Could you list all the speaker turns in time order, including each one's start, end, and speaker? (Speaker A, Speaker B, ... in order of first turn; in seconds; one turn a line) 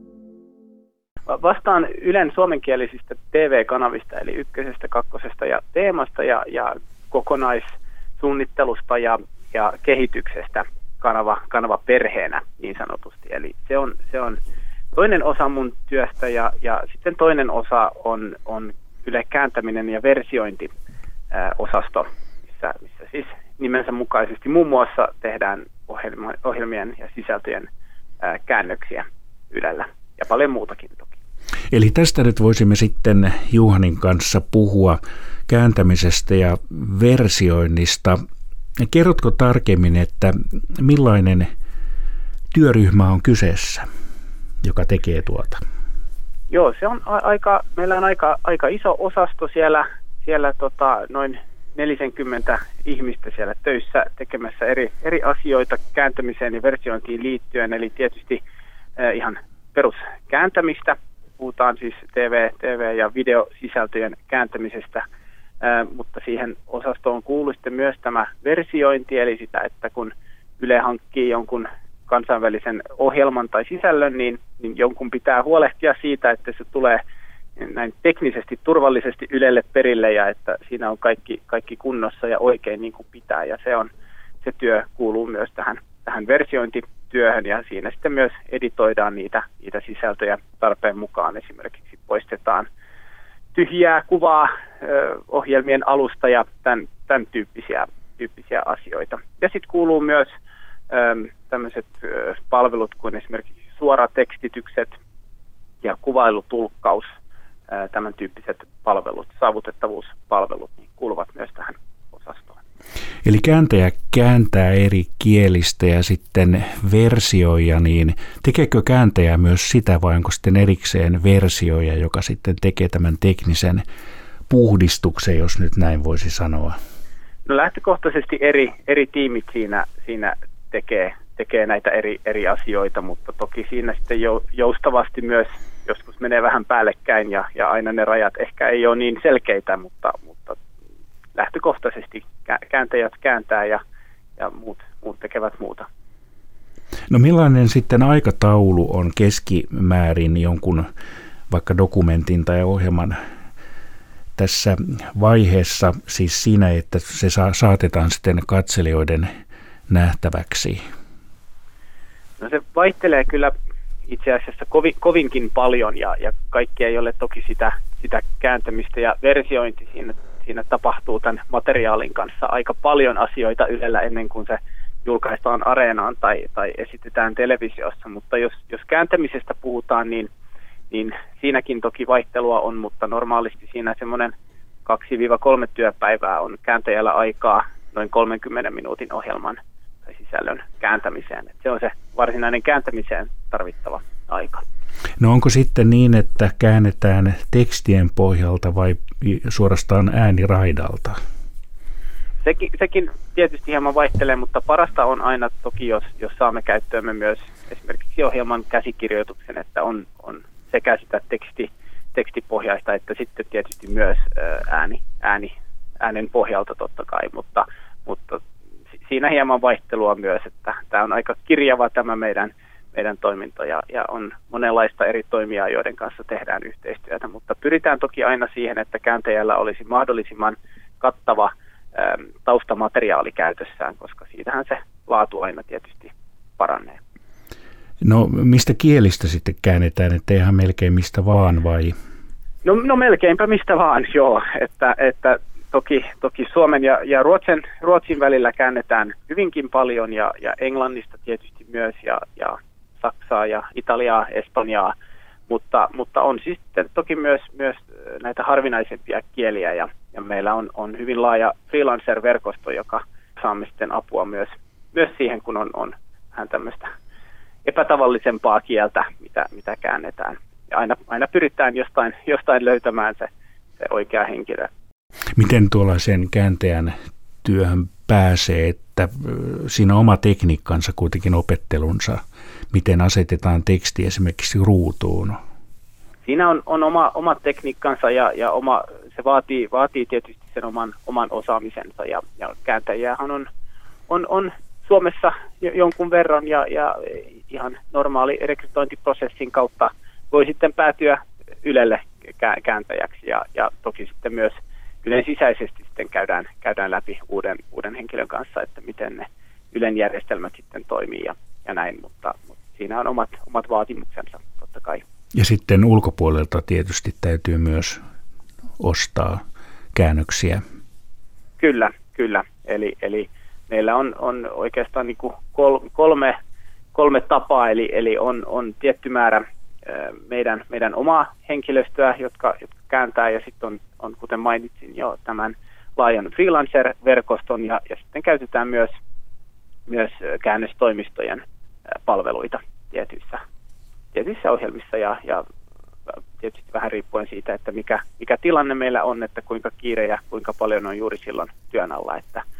Speaker A: 1.3-14.4
Speaker A: 14.9-20.7
Speaker A: 21.3-27.7
Speaker A: 28.2-31.1
Speaker B: 31.7-38.2
Speaker B: 38.8-41.5
Speaker B: 42.5-43.9
Speaker B: 44.6-45.6
Speaker A: 46.5-58.4
Speaker A: 59.0-65.0
Speaker A: 65.6-77.0
Speaker A: 77.6-83.9
Speaker A: 84.4-92.7
Speaker A: 93.5-100.3
Speaker A: 100.9-104.9
Speaker A: 105.8-107.1
Speaker A: 107.7-112.6
Speaker B: 113.2-123.8
Speaker B: 124.5-126.8
Speaker A: 127.5-140.6
Speaker A: 141.3-143.8
Speaker A: 144.4-145.9
Speaker B: 147.1-150.9
Speaker B: 151.5-153.2
Speaker B: 154.4-159.3
Speaker B: 159.9-160.8
Speaker A: 162.4-163.5
Speaker A: 164.1-180.3
Speaker A: 180.9-184.3
Speaker A: 184.8-194.7
Speaker B: 195.2-201.2
Speaker A: 202.4-218.4
Speaker A: 219.0-237.0
Speaker B: 238.0-241.9
Speaker A: 242.6-254.9
Speaker A: 255.5-266.9
Speaker A: 267.6-273.3
Speaker A: 273.8-274.7
Speaker B: 275.4-285.4
Speaker A: 286.2-293.5
Speaker A: 294.1-315.0
Speaker B: 315.3-318.0
Speaker B: 318.8-319.4
Speaker B: 319.9-320.6
Speaker A: 321.6-326.4
Speaker A: 326.9-338.9
Speaker A: 339.9-341.4
Speaker A: 342.1-343.4
Speaker A: 344.1-345.4
Speaker A: 346.4-352.4